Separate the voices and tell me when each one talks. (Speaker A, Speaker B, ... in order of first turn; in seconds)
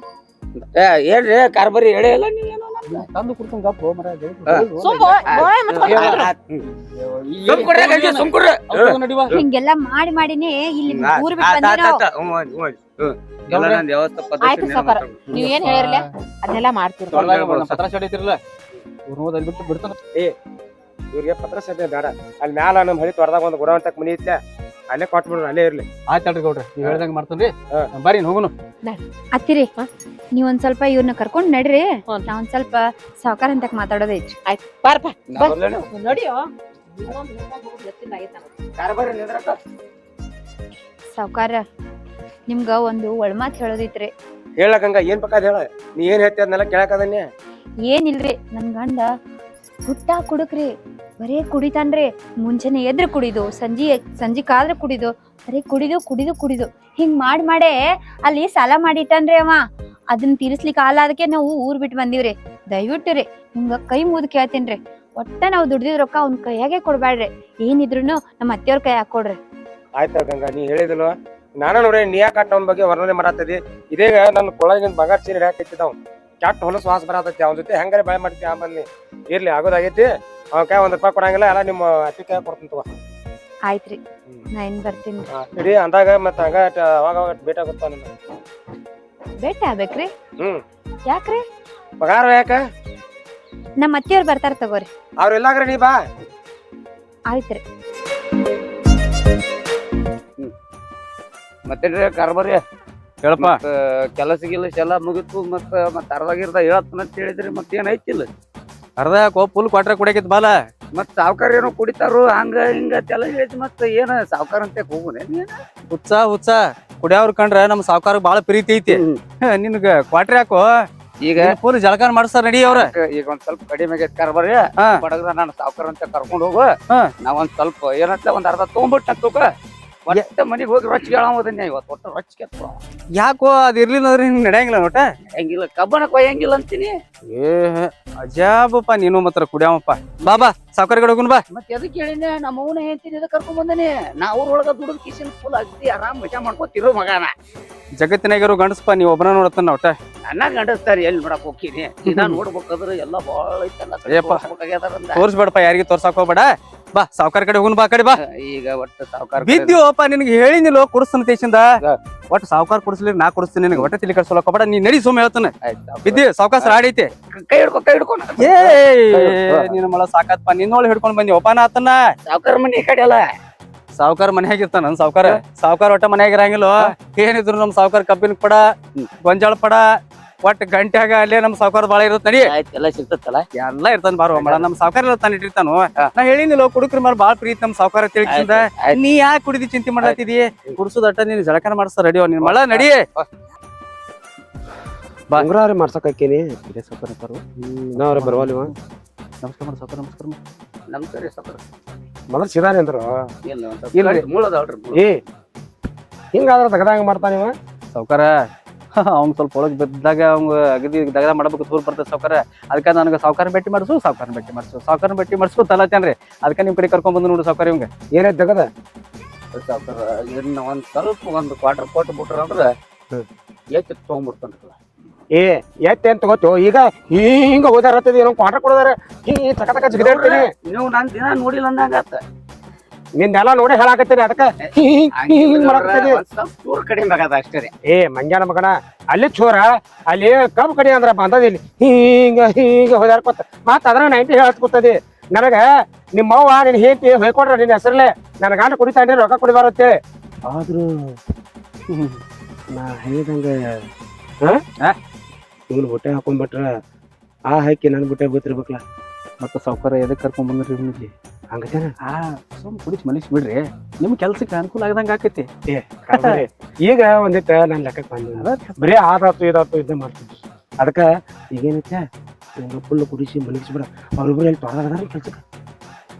Speaker A: 0.6-3.1, 5.3-6.3, 7.5-8.6, 10.9-15.4, 17.1-17.8, 35.3-35.9, 38.8-39.6, 101.7-102.6, 103.4-108.3, 110.9-115.6, 118.9-119.2, 121.2-121.5, 122.7-129.5, 130.1-132.8, 135.3-137.0, 141.5-147.3, 150.3-155.2, 158.2-159.8, 165.6-166.8, 167.3-169.7, 172.2-173.3, 182.4-183.4, 184.3-184.7, 188.2-189.0, 192.4-193.3, 200.9-201.6, 203.4-205.0, 219.5-222.7, 223.7-224.8, 229.9-232.2, 234.6-237.7
Speaker B: 2.9-5.2, 5.8-9.4, 13.5-13.8, 15.3-16.1, 17.1-18.4, 19.1-19.9, 26.1-28.5, 103.2-103.6, 109.0-110.5, 115.9-120.8, 121.4-122.9, 124.8-125.0, 133.2-135.1, 137.3-141.4, 147.9-150.0, 152.1-152.4, 154.1-154.4, 155.1-158.2, 159.4-165.5, 166.0-167.1, 168.4-172.1, 174.0-178.7, 179.2-182.5, 183.5-193.1, 196.7-197.4, 197.9-198.7, 199.4-200.4, 207.9-217.9, 251.9-252.2, 259.4-261.1, 262.0-265.5, 266.1-266.4, 268.4-268.8
Speaker C: 4.8-6.3, 14.4-17.3, 34.5-38.5
Speaker D: 9.3-12.0, 29.3-29.7, 30.3-34.4, 41.1-41.6, 42.5-44.1, 47.9-49.1, 49.9-69.4, 83.7-84.0, 84.5-85.3, 89.4-90.1, 91.1-91.4, 93.8-94.9, 97.3-97.6
Speaker E: 21.1-24.4, 24.9-25.8, 44.6-47.2, 70.0-82.9, 85.3-88.1, 92.0-92.6, 95.2-96.0
Speaker F: 195.4-196.6, 197.9-198.7, 202.3-203.2, 204.9-205.2, 206.3-207.5, 218.1-218.7, 225.3-230.5, 233.2-236.2, 237.9-249.9, 250.5-250.9, 252.7-253.5, 255.7-256.7, 257.5-258.8, 261.5-261.9, 265.7-272.1, 272.6-275.4